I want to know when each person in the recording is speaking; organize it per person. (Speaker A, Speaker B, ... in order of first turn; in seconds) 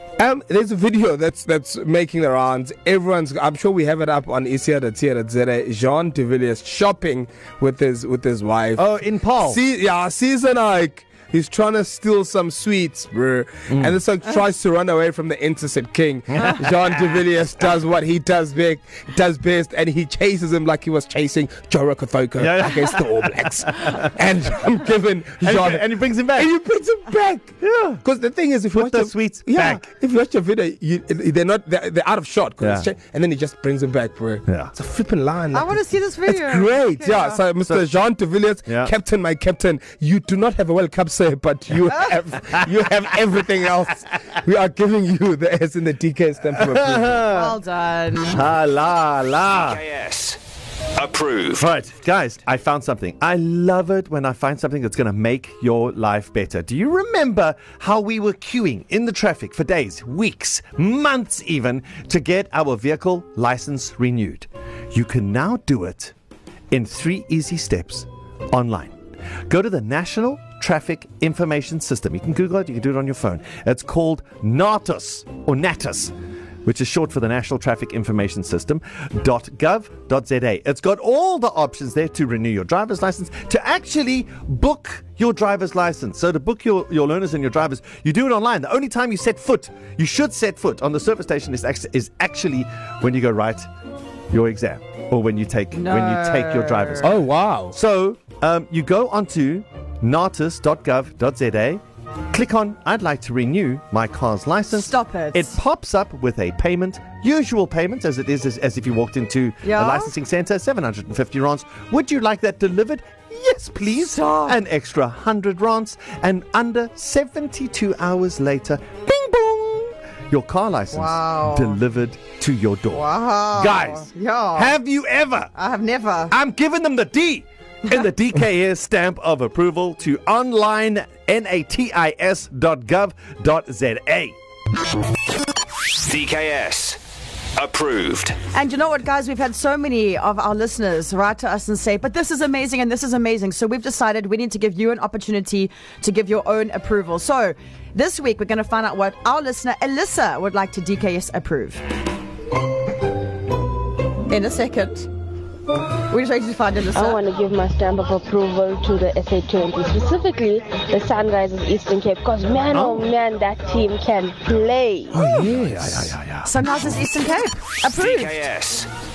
Speaker A: 0.2-8.8, 9.4-47.3, 97.0-97.8
Speaker B: 8.8-9.6, 13.7-14.0, 22.4-23.9, 25.4-26.5, 27.6-28.0, 28.7-29.8, 32.6-32.9, 34.5-34.7, 38.7-38.9, 46.7-47.6, 48.3-49.8, 51.6-66.1, 66.7-69.0, 69.5-76.1, 76.7-93.7, 94.3-97.1, 97.7-101.8, 102.3-125.5, 126.3-134.3, 162.7-163.1, 165.1-166.5
Speaker C: 35.5-37.4, 47.3-48.4, 95.8-97.2, 104.7-105.5, 109.6-110.1, 113.9-114.5, 120.9-121.8, 122.9-124.8, 125.5-126.3, 138.5-151.8, 154.3-155.1, 156.1-157.2, 166.4-168.4
Speaker D: 49.5-50.4, 50.9-51.7, 136.0-137.0, 137.6-138.4, 167.9-168.9
Speaker E: 156.9-165.4